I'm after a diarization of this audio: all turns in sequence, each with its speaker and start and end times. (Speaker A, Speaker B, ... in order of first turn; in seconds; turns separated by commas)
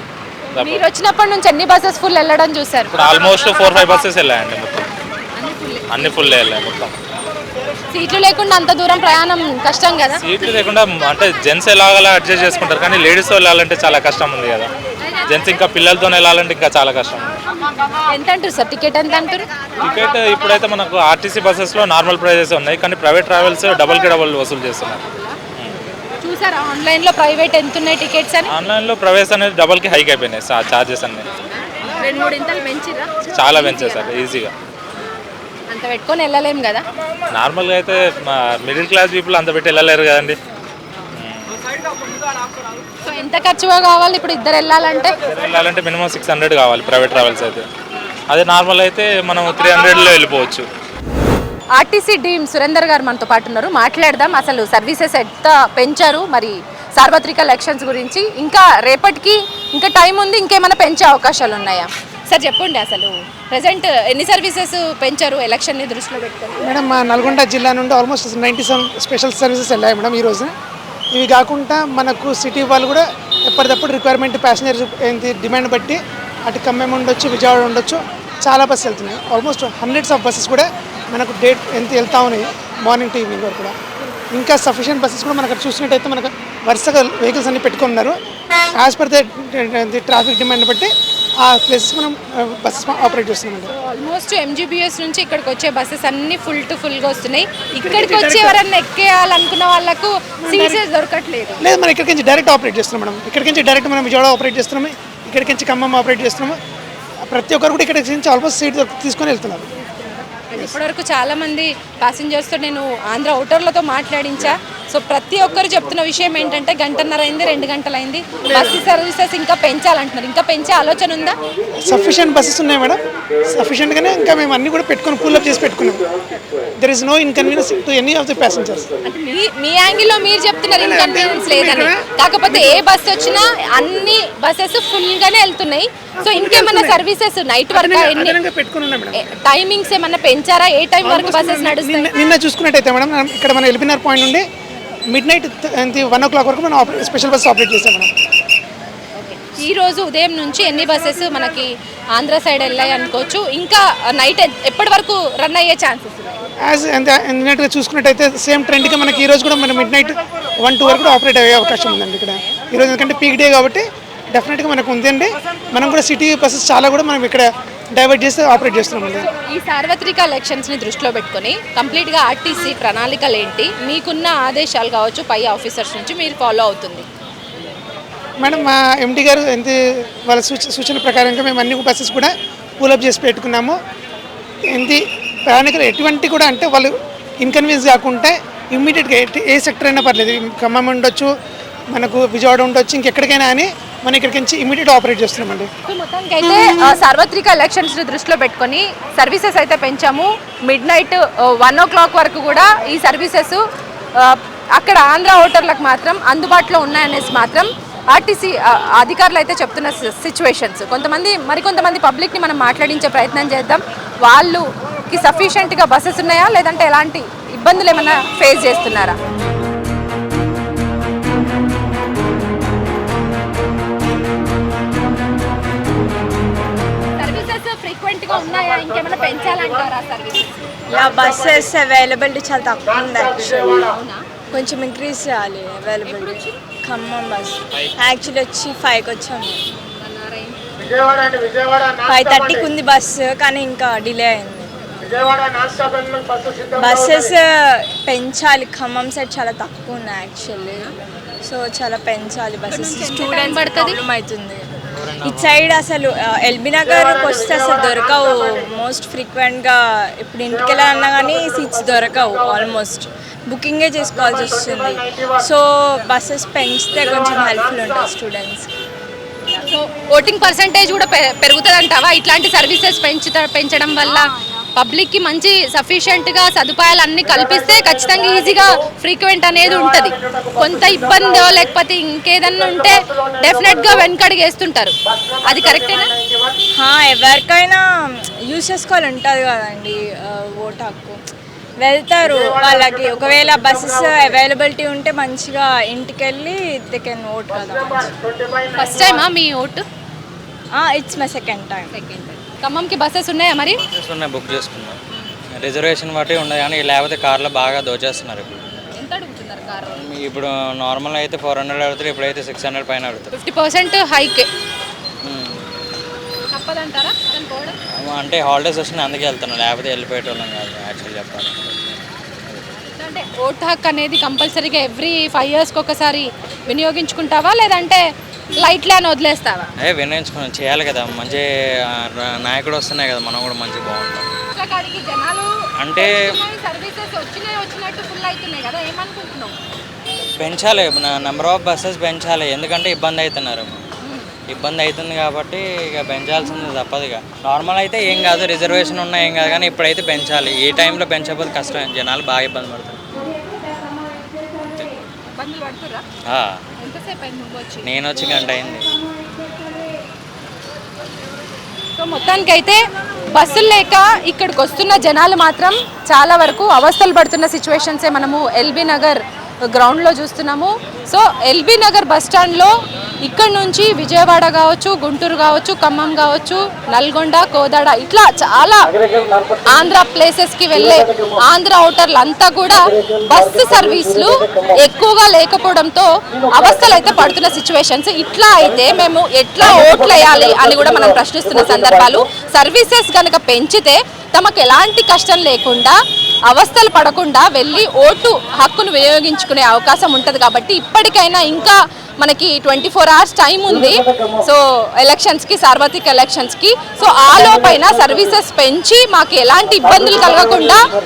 Speaker A: 0.5-3.0, Speaker B: 0.6-0.8, Speaker B: 2.9-4.9, Speaker A: 5.3-6.2, Speaker B: 5.9-6.9, Speaker A: 7.9-10.2, Speaker B: 10.2-14.7, Speaker A: 15.0-15.5, Speaker B: 15.3-17.4, Speaker A: 18.1-19.4, Speaker B: 19.8-25.0, Speaker A: 25.0-25.4, Speaker A: 26.2-28.5, Speaker B: 28.5-31.3, Speaker A: 31.3-34.2, Speaker B: 33.3-34.5, Speaker A: 35.7-36.8, Speaker B: 37.3-40.4, Speaker B: 41.1-41.5, Speaker A: 43.0-45.1, Speaker B: 45.2-47.6, Speaker B: 48.3-50.6, Speaker A: 51.8-66.7, Speaker C: 66.6-70.5, Speaker C: 71.1-83.7, Speaker C: 84.3-88.1, Speaker C: 88.8-90.9, Speaker C: 91.4-93.7, Speaker A: 93.7-101.6, Speaker C: 97.8-98.6, Speaker C: 100.4-100.8, Speaker C: 101.6-106.6, Speaker C: 107.3-109.7, Speaker A: 110.0-121.3, Speaker C: 118.5-118.8, Speaker C: 121.8-123.0, Speaker C: 123.5-126.0, Speaker C: 126.8-128.9, Speaker A: 129.1-138.3, Speaker C: 130.8-132.8, Speaker C: 136.2-137.0, Speaker C: 137.7-139.2, Speaker A: 139.2-142.1, Speaker C: 141.0-144.4, Speaker C: 145.1-148.1, Speaker A: 149.2-156.4, Speaker C: 156.7-169.2, Speaker A: 162.3-162.6, Speaker A: 169.2-177.1, Speaker C: 178.4-179.7, Speaker C: 180.3-183.8, Speaker C: 184.7-191.3, Speaker C: 191.9-195.7, Speaker A: 195.9-203.6, Speaker A: 204.2-219.2, Speaker A: 227.2-230.6, Speaker D: 230.9-233.8, Speaker A: 233.4-234.7, Speaker D: 234.5-239.6, Speaker A: 236.1-236.5, Speaker A: 239.7-240.6, Speaker D: 242.0-244.7, Speaker D: 246.7-250.9, Speaker D: 251.4-268.7, Speaker A: 252.7-254.0, Speaker A: 269.6-274.2, Speaker A: 274.8-284.9, Speaker A: 285.5-286.1, Speaker D: 286.8-287.8, Speaker D: 288.5-291.2, Speaker D: 291.8-298.1, Speaker A: 298.7-299.8, Speaker D: 300.7-301.9, Speaker A: 301.9-303.8, Speaker E: 303.8-305.0, Speaker E: 305.6-308.6, Speaker A: 308.7-310.0, Speaker E: 309.9-313.3, Speaker A: 313.3-314.5, Speaker E: 315.2-315.6, Speaker A: 316.5-317.7, Speaker E: 318.0-322.6, Speaker A: 322.9-328.0, Speaker A: 328.6-329.7, Speaker E: 329.8-334.3, Speaker A: 334.5-339.5, Speaker E: 335.8-336.2, Speaker E: 340.4-343.8, Speaker A: 344.0-344.3, Speaker E: 344.5-353.0, Speaker A: 355.4-356.0, Speaker E: 356.3-356.6, Speaker A: 356.8-357.9, Speaker E: 357.8-358.9, Speaker A: 362.0-362.8, Speaker A: 363.3-369.2, Speaker A: 369.7-372.7, Speaker A: 373.2-378.9, Speaker A: 379.6-396.0, Speaker A: 396.5-410.8